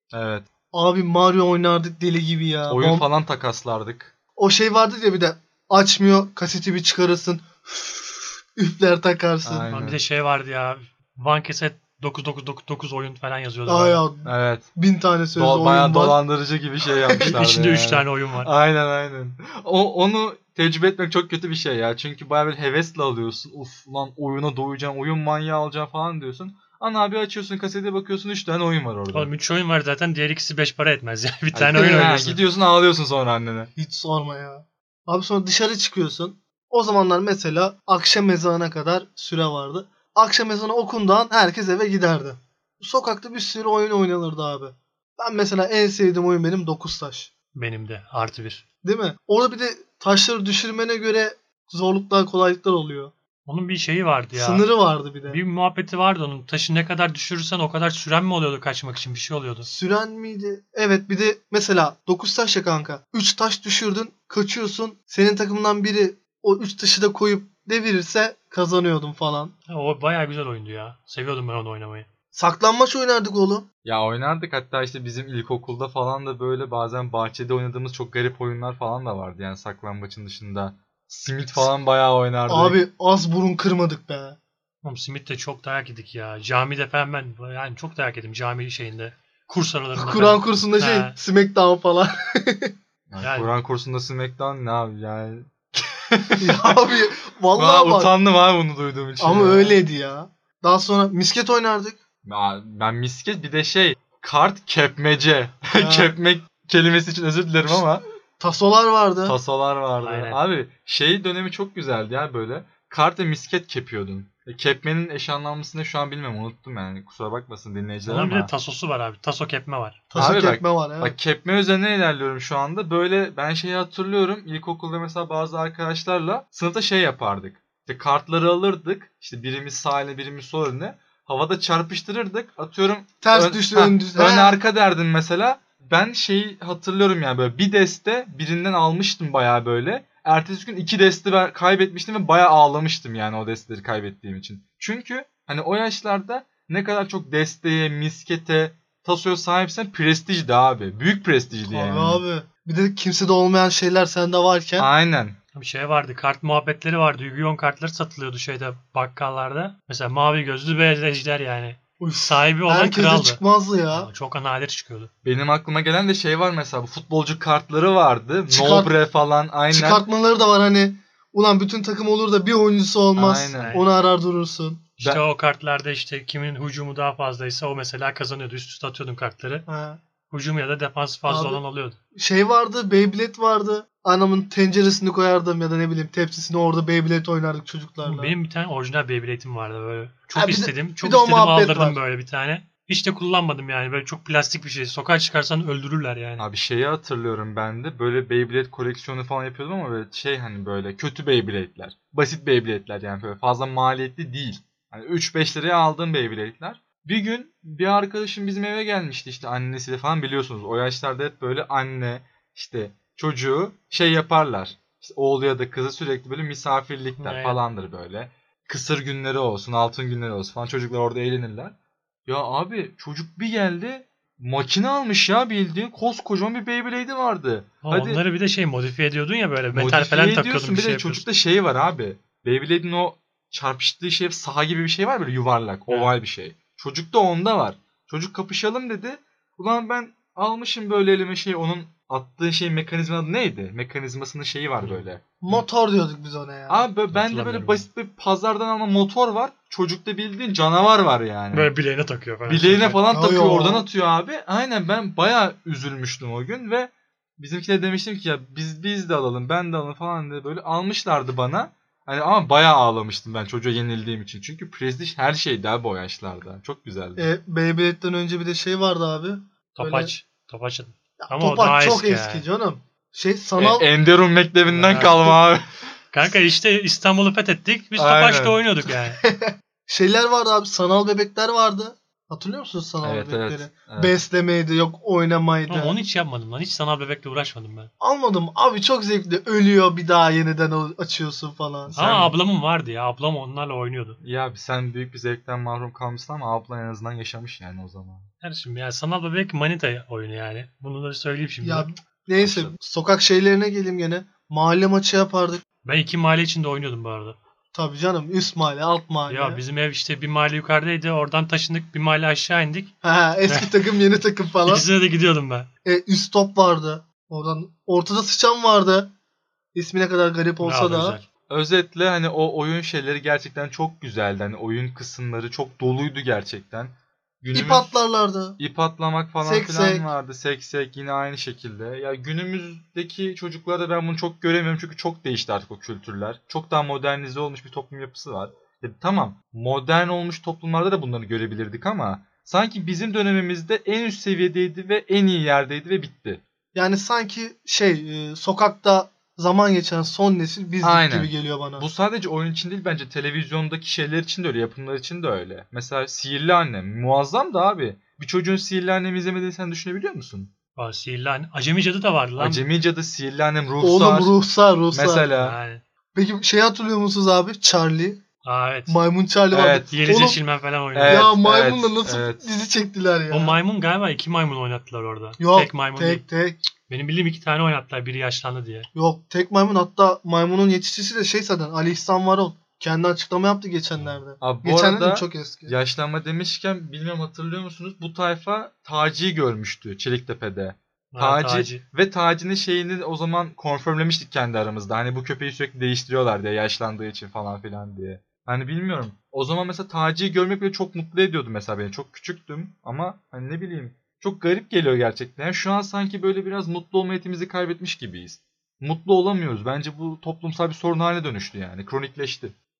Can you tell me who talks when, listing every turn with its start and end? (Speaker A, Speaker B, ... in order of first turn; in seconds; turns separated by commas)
Speaker A: 0.1-0.5, Speaker B: 0.7-3.0, Speaker A: 2.7-4.1, Speaker B: 4.4-9.7, Speaker A: 9.4-10.0, Speaker C: 9.7-14.0, Speaker B: 13.7-16.2, Speaker A: 14.2-14.7, Speaker A: 15.3-29.3, Speaker B: 16.9-17.4, Speaker C: 17.2-18.5, Speaker C: 29.1-32.4, Speaker A: 31.6-33.7, Speaker B: 31.7-32.1, Speaker B: 33.8-47.3, Speaker C: 47.5-48.6, Speaker B: 48.8-53.1, Speaker C: 53.5-54.6, Speaker B: 54.3-55.4, Speaker C: 55.3-59.7, Speaker B: 59.6-69.5, Speaker C: 69.7-72.1, Speaker B: 72.3-73.7, Speaker A: 73.8-82.8, Speaker B: 82.5-84.4, Speaker C: 84.8-91.2, Speaker B: 90.0-92.7, Speaker A: 93.1-96.9, Speaker C: 93.2-93.5, Speaker B: 96.4-98.1, Speaker A: 97.5-99.8, Speaker B: 99.2-102.0, Speaker A: 102.2-108.0, Speaker B: 105.8-106.1, Speaker B: 108.4-109.4, Speaker A: 109.3-118.5, Speaker C: 110.0-110.4, Speaker C: 118.1-120.2, Speaker B: 120.1-121.2, Speaker A: 120.2-152.2, Speaker B: 133.2-134.6, Speaker B: 151.6-154.9, Speaker A: 154.8-155.4, Speaker C: 155.6-163.4, Speaker B: 162.0-164.1, Speaker C: 163.9-165.1, Speaker A: 165.2-170.1, Speaker B: 168.5-168.9, Speaker B: 169.7-174.9, Speaker A: 173.2-173.8, Speaker C: 173.5-173.8, Speaker C: 175.0-179.7, Speaker B: 179.7-180.0, Speaker C: 180.3-182.0, Speaker B: 181.3-181.6, Speaker B: 182.2-188.3, Speaker C: 188.0-196.5, Speaker B: 190.3-192.0, Speaker A: 196.4-221.7, Speaker C: 217.2-217.6, Speaker A: 222.3-228.2, Speaker C: 227.8-231.3, Speaker A: 229.7-245.7, Speaker C: 244.8-245.1, Speaker B: 245.4-246.9, Speaker A: 246.7-251.7, Speaker C: 247.1-247.9, Speaker C: 251.5-253.0, Speaker A: 252.5-267.3, Speaker B: 253.1-253.9, Speaker B: 267.2-270.1, Speaker C: 269.8-272.4, Speaker B: 271.2-273.9, Speaker A: 273.6-275.7, Speaker C: 274.7-275.4, Speaker C: 276.1-279.2, Speaker A: 278.0-278.6, Speaker B: 279.2-286.0, Speaker A: 283.0-284.1, Speaker C: 285.7-287.9, Speaker B: 288.0-292.0, Speaker A: 291.9-292.4, Speaker C: 292.0-294.2, Speaker A: 294.2-298.3, Speaker C: 298.4-301.9, Speaker B: 301.6-305.6, Speaker A: 302.4-302.8, Speaker C: 305.9-307.4, Speaker B: 307.7-309.6, Speaker C: 309.3-312.9, Speaker B: 313.0-314.9, Speaker C: 313.5-313.9, Speaker C: 314.6-315.7, Speaker B: 315.9-319.1, Speaker B: 319.8-321.2, Speaker C: 320.6-321.3, Speaker A: 321.5-327.9, Speaker B: 327.5-328.6, Speaker A: 328.6-346.4, Speaker B: 329.4-330.1, Speaker B: 346.8-351.9, Speaker A: 350.8-360.5, Speaker C: 360.8-362.7, Speaker A: 362.4-364.4, Speaker B: 363.8-365.3, Speaker A: 364.9-365.6, Speaker C: 365.4-365.8, Speaker B: 366.1-368.2, Speaker C: 368.4-369.0, Speaker B: 368.9-370.4, Speaker A: 369.5-369.9, Speaker C: 369.8-371.3, Speaker A: 370.9-372.4, Speaker B: 371.1-373.6, Speaker C: 373.3-376.2, Speaker B: 375.4-376.6, Speaker C: 376.9-378.9, Speaker B: 378.9-385.8, Speaker A: 384.4-412.6, Speaker C: 391.1-391.8